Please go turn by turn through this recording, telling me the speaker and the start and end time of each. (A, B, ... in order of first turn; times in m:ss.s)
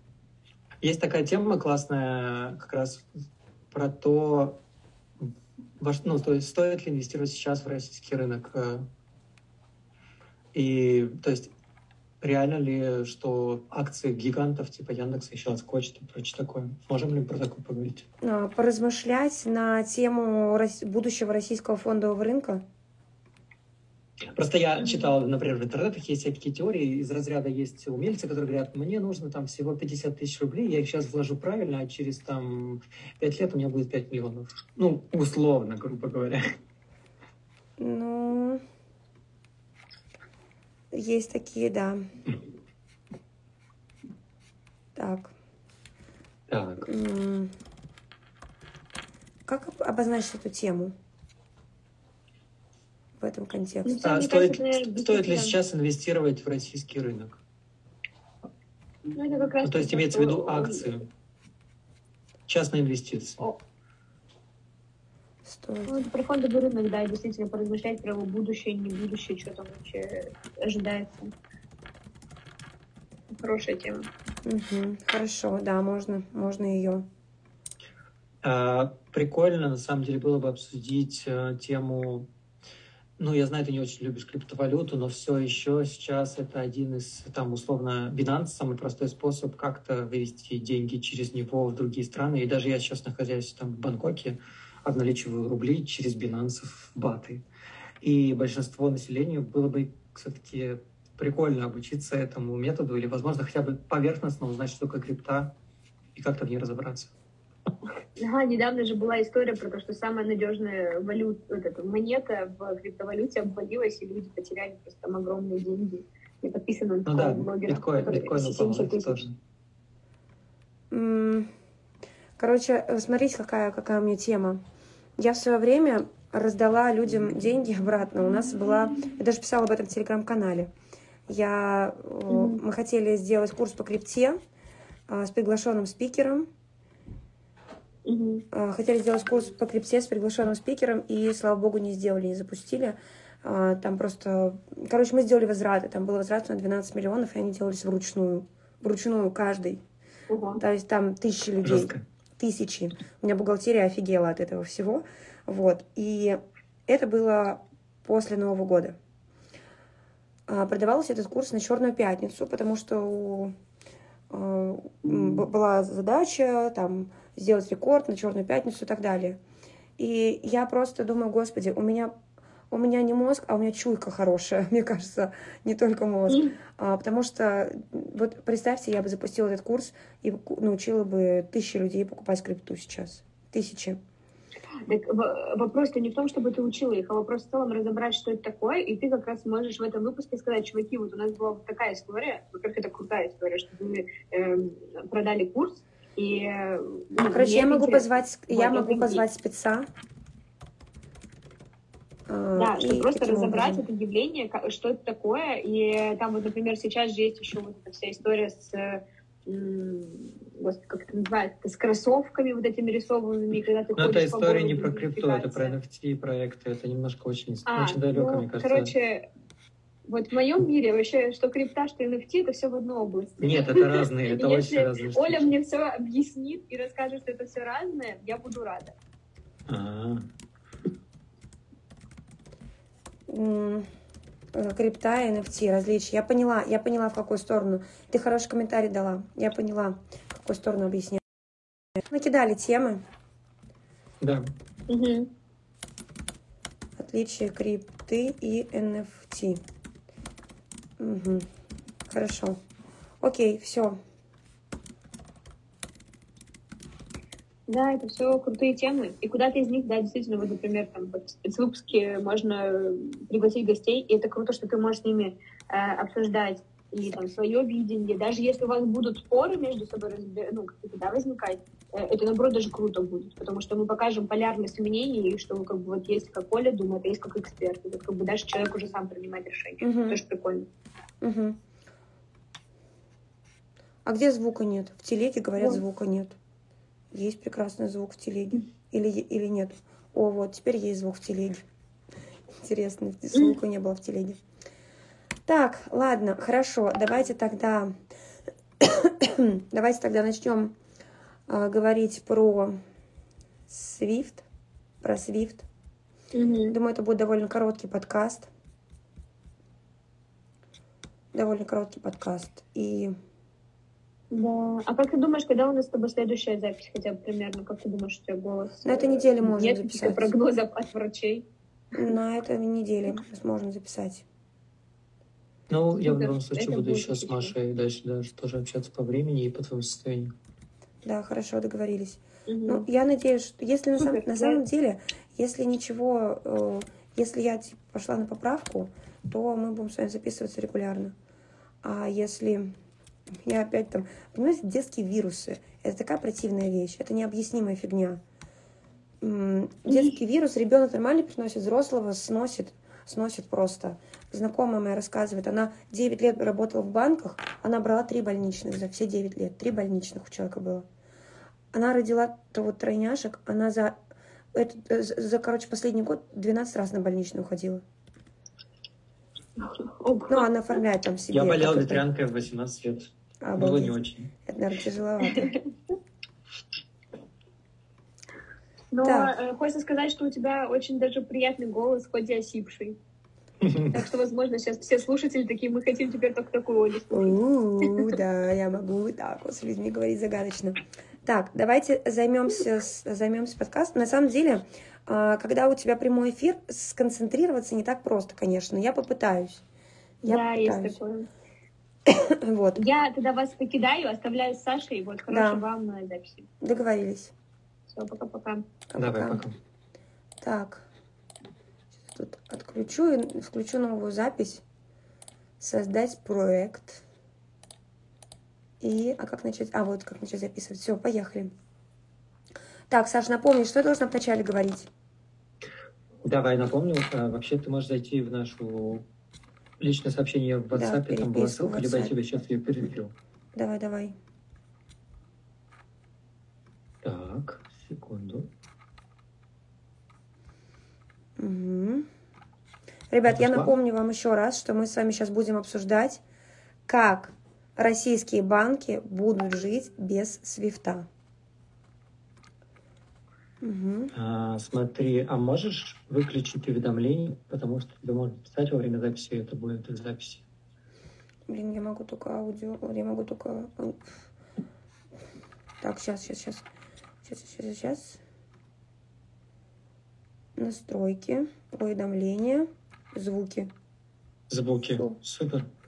0:00.8-0:03.0 A
0:03.7-0:04.6 A
0:05.2-0:08.9 A
0:10.5-0:11.5 A
0:12.2-0:18.0 A
0:18.2-0:22.6 B
0:24.3-0:36.4 A
0:37.8-0:38.6 B
0:40.9-0:42.0 B
0:45.0-0:45.3 B
0:46.5-0:46.9 A
0:46.8-0:47.5 B
0:49.5-0:50.9 B
0:53.2-0:54.0 B
0:53.8-0:55.5 C
0:54.0-0:57.4 A
0:59.1-1:00.9 C
0:59.6-1:01.1 A
1:02.5-1:03.4 A
1:05.4-1:06.0 B
1:05.9-1:11.3 C
1:13.3-1:14.1 C
1:14.4-1:17.0 B
1:18.4-1:22.3 A
1:23.2-1:37.4 A
1:38.0-1:45.5 A
1:46.1-1:47.1 A
1:48.2-1:59.2 C
1:57.1-1:59.3 A
2:00.9-2:01.5 B
2:02.4-2:04.6 B
2:05.2-2:10.7 B
2:11.3-2:14.4 B
2:12.3-2:12.6 C
2:15.1-2:16.5 B
2:18.0-2:18.4 C
2:18.5-2:29.8 B
2:30.3-2:30.6 C
2:30.6-2:39.0 B
2:31.6-2:32.0 A
2:40.5-2:43.5 B
2:44.3-2:49.4 B
2:50.0-2:52.1 B
2:52.7-3:04.0 B
3:04.8-3:19.2 C
3:17.2-3:19.9 B
3:22.3-3:23.8 B
3:22.6-3:35.8 C
3:34.0-3:38.9 A
3:37.6-3:39.2 C
3:40.1-3:48.9 C
3:43.4-3:45.5 A
3:49.7-3:50.2 A
3:53.3-3:53.9 B
3:54.5-4:01.2 B
4:02.1-4:03.0 B
4:04.2-4:04.5 A
4:04.9-4:05.3 C
4:07.0-4:09.6 B
4:11.0-4:11.5 B
4:12.1-4:12.6 B
4:13.2-4:14.0 B
4:17.7-4:40.7 C
4:39.8-4:40.2 B
4:41.2-4:41.6 B
4:44.0-4:46.4 B
4:47.1-4:51.6 B
4:52.6-4:54.4 B
4:55.5-4:57.9 B
4:58.8-5:00.7 B
5:01.5-5:02.8 B
5:03.7-5:04.4 B
5:05.0-5:05.6 B
5:06.3-5:06.7 C
5:06.7-5:08.5 B
5:11.3-5:13.1 B
5:14.3-5:21.4 C
5:18.8-5:20.3 B
5:21.9-5:24.2 B
5:25.7-5:30.3 A
5:26.0-5:27.5 C
5:31.0-5:41.1 B
5:32.5-5:32.8 C
5:34.0-5:34.6 C
5:41.8-5:42.7 B
5:43.4-5:48.2 B
5:49.2-6:00.8 B
5:49.9-5:50.2 C
6:01.7-6:04.0 B
6:04.5-6:07.8 B
6:09.6-6:10.5 C
6:10.3-6:12.0 B
6:11.3-6:14.3 A
6:13.4-6:15.5 B
6:18.9-6:23.0 C
6:19.0-6:19.3 B
6:23.6-6:23.9 A
6:23.9-6:28.2 C
6:27.1-6:39.6 B
6:40.2-6:41.0 B
6:40.3-6:41.3 C
6:42.1-6:42.8 B
6:42.8-6:46.5 C
6:45.3-6:45.6 B
6:46.6-6:47.3 B
6:47.9-6:48.7 C
6:48.9-6:49.4 B
6:49.0-6:49.5 A
6:50.4-6:50.8 B
6:52.1-6:54.6 B
6:55.6-6:57.0 B
6:58.8-7:01.5 B
7:02.9-7:04.9 B
7:06.2-7:09.0 A
7:09.8-7:13.1 A
7:10.7-7:12.1 B
7:13.5-7:14.1 B
7:17.0-7:18.5 A
7:21.4-7:22.1 B
7:23.1-7:26.2 B
7:23.3-7:23.7 A
7:26.9-7:31.1 B
7:33.6-7:34.1 B
7:34.1-7:40.4 A
7:41.5-7:44.1 B
7:45.8-7:46.6 B
7:47.2-7:48.2 B
7:50.6-7:53.7 B
7:54.5-7:55.7 A